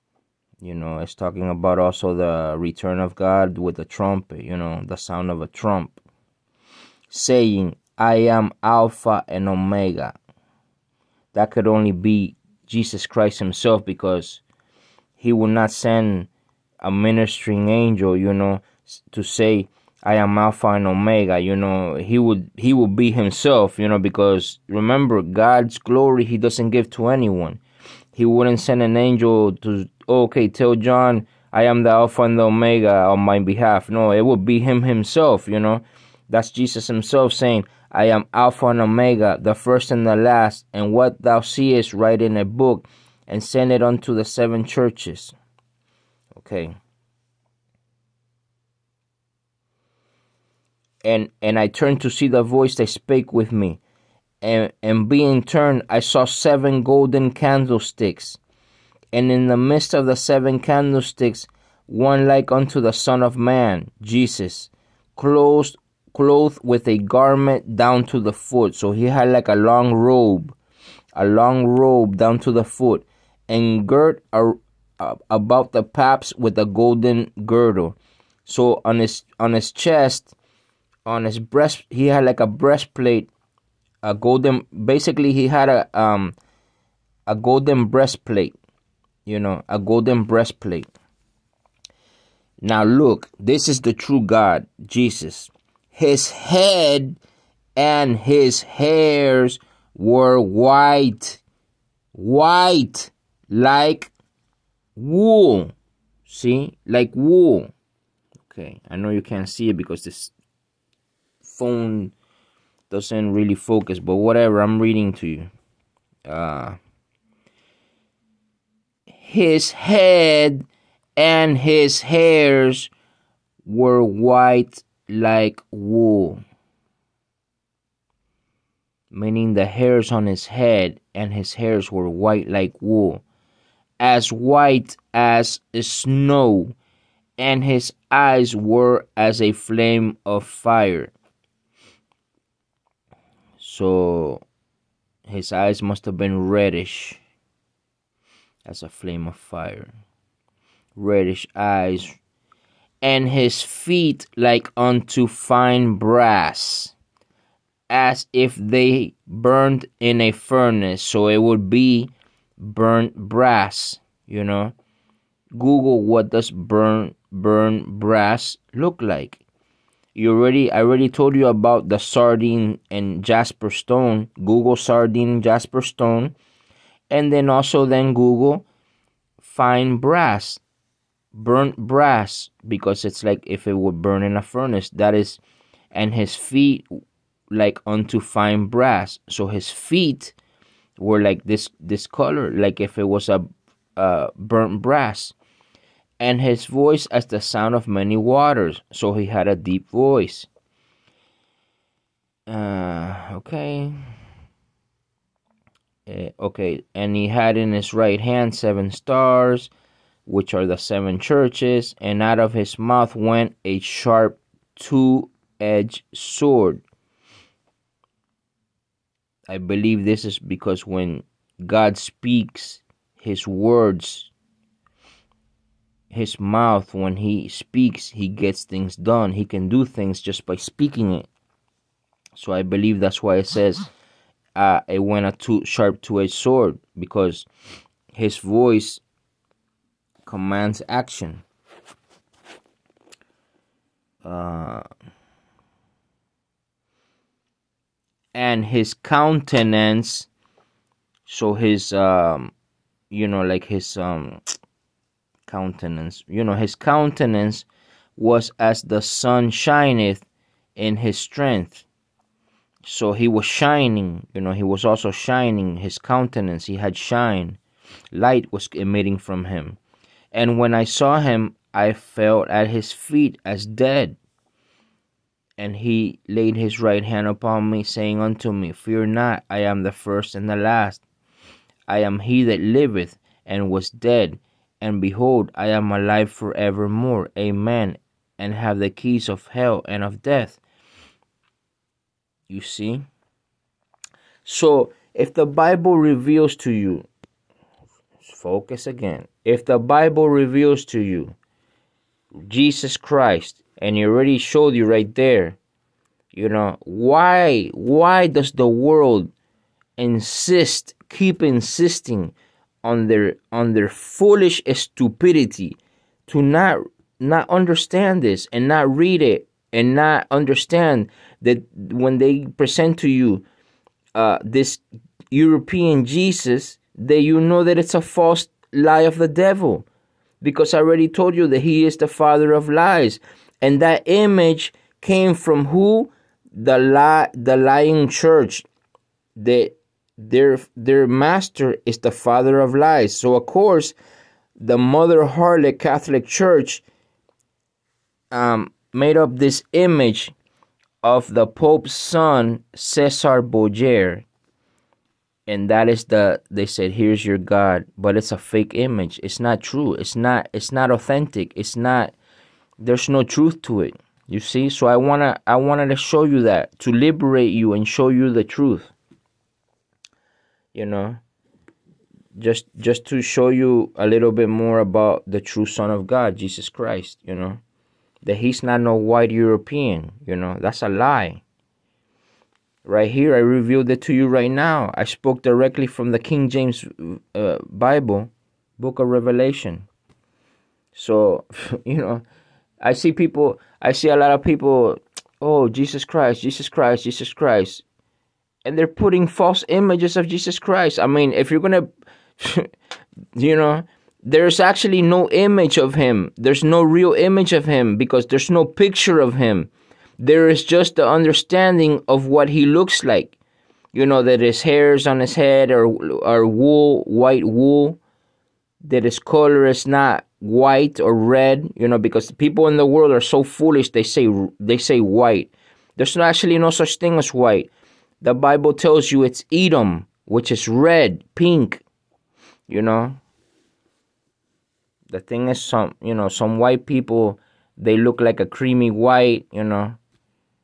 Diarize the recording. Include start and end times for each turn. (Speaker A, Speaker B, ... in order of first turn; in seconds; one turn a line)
Speaker A: 0.6-6.0
Speaker A: 7.1-10.2
Speaker A: 11.3-14.4
Speaker A: 15.2-16.3
Speaker A: 16.8-27.6
Speaker A: 28.1-45.3
Speaker A: 46.3-46.7
Speaker A: 51.0-53.8
Speaker A: 54.4-58.4
Speaker A: 59.1-70.5
Speaker A: 71.2-80.3
Speaker A: 81.0-83.3
Speaker A: 84.0-86.3
Speaker A: 87.3-88.5
Speaker A: 89.2-90.9
Speaker A: 92.6-97.2
Speaker A: 97.8-101.4
Speaker A: 102.1-104.1
Speaker A: 105.0-105.7
Speaker A: 106.3-107.7
Speaker A: 108.5-110.3
Speaker A: 111.4-112.1
Speaker A: 112.9-115.5
Speaker A: 116.3-116.8
Speaker A: 119.1-120.7
Speaker A: 121.2-122.9
Speaker A: 123.7-126.4
Speaker A: 129.1-133.2
Speaker A: 134.0-136.7
Speaker A: 137.4-141.1
Speaker A: 143.6-144.4
Speaker A: 145.2-147.2
Speaker A: 148.6-149.9
Speaker A: 150.9-152.2
Speaker A: 153.0-156.9
Speaker A: 157.9-164.7
Speaker A: 165.5-169.4
Speaker A: 170.1-176.3
Speaker A: 177.1-178.6
Speaker A: 179.4-180.6
Speaker A: 181.3-185.4
Speaker A: 185.9-186.8
Speaker A: 187.5-190.3
Speaker A: 191.0-195.3
Speaker A: 196.2-200.5
Speaker A: 202.5-203.9
Speaker A: 206.1-209.7
Speaker A: 210.2-216.8
Speaker A: 219.5-224.3
Speaker A: 226.1-231.3
Speaker A: 232.3-233.9
Speaker A: 234.6-237.5
Speaker A: 238.1-239.0
Speaker A: 240.2-241.4
Speaker A: 244.2-244.8
Speaker A: 248.3-250.3
Speaker A: 251.3-252.5
Speaker A: 253.1-254.4
Speaker A: 255.4-257.6
Speaker A: 258.2-260.2
Speaker A: 260.8-261.9
Speaker A: 262.8-267.6
Speaker A: 268.1-269.8
Speaker A: 270.3-274.2
Speaker A: 275.6-281.0
Speaker A: 281.9-290.6
Speaker A: 292.5-293.1
Speaker A: 294.4-297.1
Speaker A: 298.2-301.4
Speaker A: 302.3-305.6
Speaker A: 306.3-309.3
Speaker A: 310.0-323.4
Speaker A: 324.1-329.8
Speaker A: 330.4-338.6
Speaker A: 339.4-343.9
Speaker A: 344.6-346.8
Speaker A: 348.3-350.3
Speaker A: 351.0-354.2
Speaker A: 355.5-362.1
Speaker A: 362.8-368.9
Speaker A: 370.7-371.2
Speaker A: 372.3-377.6
Speaker A: 378.2-381.4
Speaker A: 382.8-389.9
Speaker A: 390.9-392.2
Speaker A: 392.8-397.8
Speaker A: 398.6-401.9
Speaker A: 402.4-402.7
Speaker A: 403.3-413.3
Speaker A: 413.9-418.0
Speaker A: 418.8-427.7
Speaker A: 428.2-431.8
Speaker A: 432.7-433.2
Speaker A: 435.1-440.0